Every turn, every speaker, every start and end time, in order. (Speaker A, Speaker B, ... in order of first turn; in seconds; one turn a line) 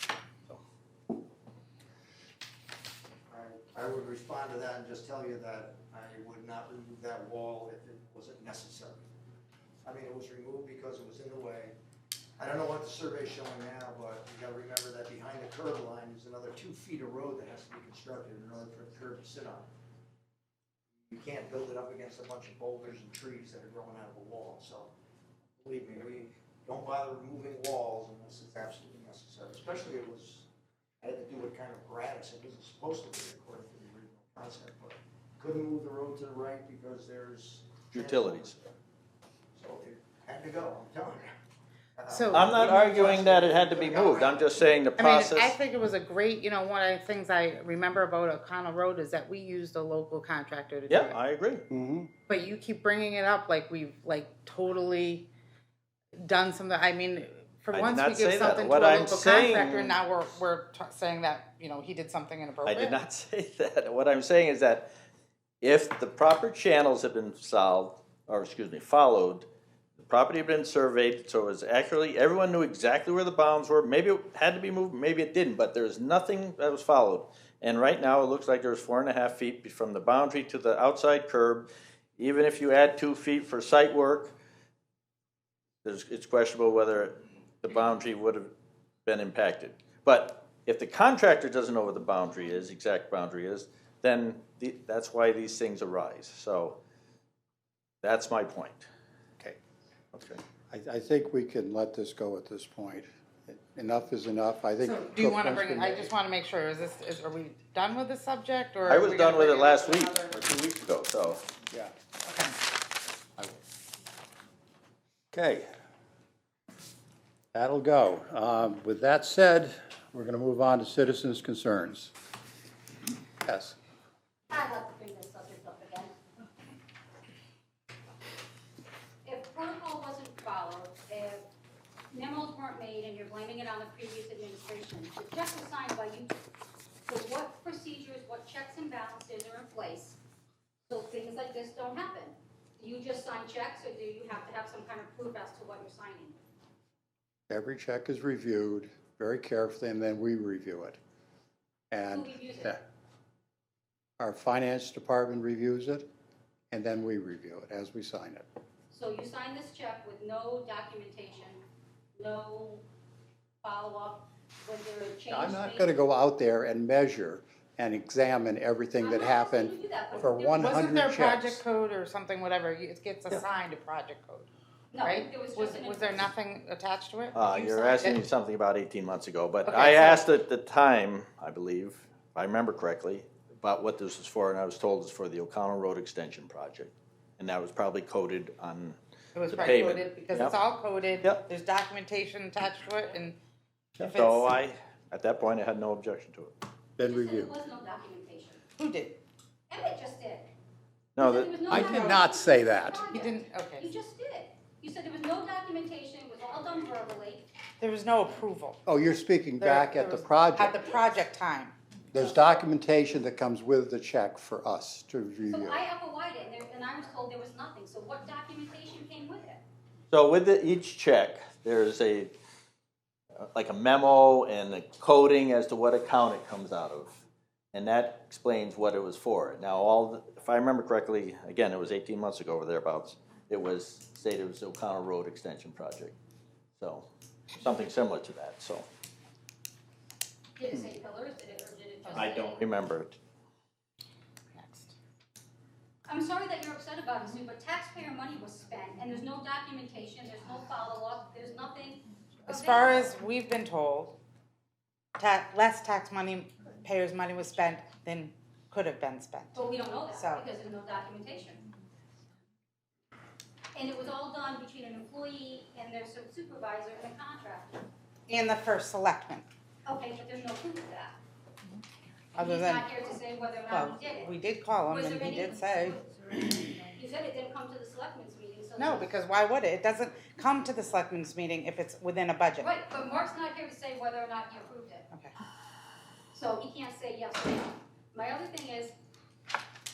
Speaker A: 3.3-9.1
Speaker A: 9.8-11.7
Speaker A: 12.4-19.7
Speaker A: 21.1-24.9
Speaker A: 25.6-30.5
Speaker A: 31.0-38.7
Speaker B: 37.9-38.6
Speaker A: 39.5-41.3
Speaker A: 41.9-44.6
Speaker C: 42.1-42.8
Speaker B: 42.3-45.6
Speaker C: 45.0-51.1
Speaker B: 50.9-51.6
Speaker D: 51.7-52.1
Speaker C: 52.3-55.3
Speaker C: 56.1-63.0
Speaker B: 57.7-60.0
Speaker B: 62.6-64.9
Speaker B: 65.6-84.3
Speaker B: 85.8-88.5
Speaker B: 89.0-96.8
Speaker B: 98.0-98.9
Speaker B: 100.1-100.4
Speaker D: 100.7-106.1
Speaker C: 104.8-110.3
Speaker B: 108.8-111.4
Speaker C: 112.3-112.5
Speaker D: 115.3-115.7
Speaker D: 117.5-122.1
Speaker D: 123.4-123.8
Speaker E: 124.5-126.1
Speaker E: 129.2-131.4
Speaker E: 132.1-136.3
Speaker E: 137.1-140.2
Speaker E: 140.9-146.4
Speaker D: 147.5-151.0
Speaker D: 151.9-152.8
Speaker E: 152.1-152.8
Speaker D: 154.2-156.1
Speaker D: 156.7-158.5
Speaker E: 158.9-161.6
Speaker E: 162.2-162.8
Speaker E: 163.6-165.9
Speaker D: 165.3-171.6
Speaker E: 169.0-170.9
Speaker C: 170.6-174.5
Speaker E: 174.9-176.3
Speaker C: 175.0-178.2
Speaker B: 177.3-189.0
Speaker E: 177.6-178.0
Speaker C: 179.7-180.2
Speaker C: 189.3-193.4
Speaker B: 189.5-190.6
Speaker C: 194.0-194.5
Speaker B: 194.0-196.6
Speaker D: 197.0-197.5
Speaker E: 197.0-198.6
Speaker C: 198.8-199.2
Speaker E: 199.7-200.5
Speaker B: 201.2-201.6
Speaker E: 201.2-207.4
Speaker D: 201.7-203.1
Speaker C: 203.1-203.9
Speaker C: 207.8-208.8
Speaker D: 208.8-211.0
Speaker C: 209.6-211.8
Speaker D: 212.1-215.8
Speaker E: 215.5-219.6
Speaker B: 220.1-222.3
Speaker B: 223.4-227.2
Speaker B: 227.7-236.1
Speaker B: 236.8-238.9
Speaker E: 240.6-242.7
Speaker B: 242.1-243.2
Speaker C: 244.5-244.9
Speaker E: 246.1-253.1
Speaker C: 252.5-254.2
Speaker C: 255.2-259.6
Speaker E: 259.5-261.6
Speaker C: 260.1-260.4
Speaker E: 263.7-267.8
Speaker C: 268.3-269.4
Speaker E: 269.9-271.2
Speaker C: 272.4-272.9
Speaker E: 272.4-274.3
Speaker C: 273.7-276.0
Speaker E: 274.9-279.1
Speaker C: 278.8-282.7
Speaker E: 282.6-285.1
Speaker E: 286.3-288.9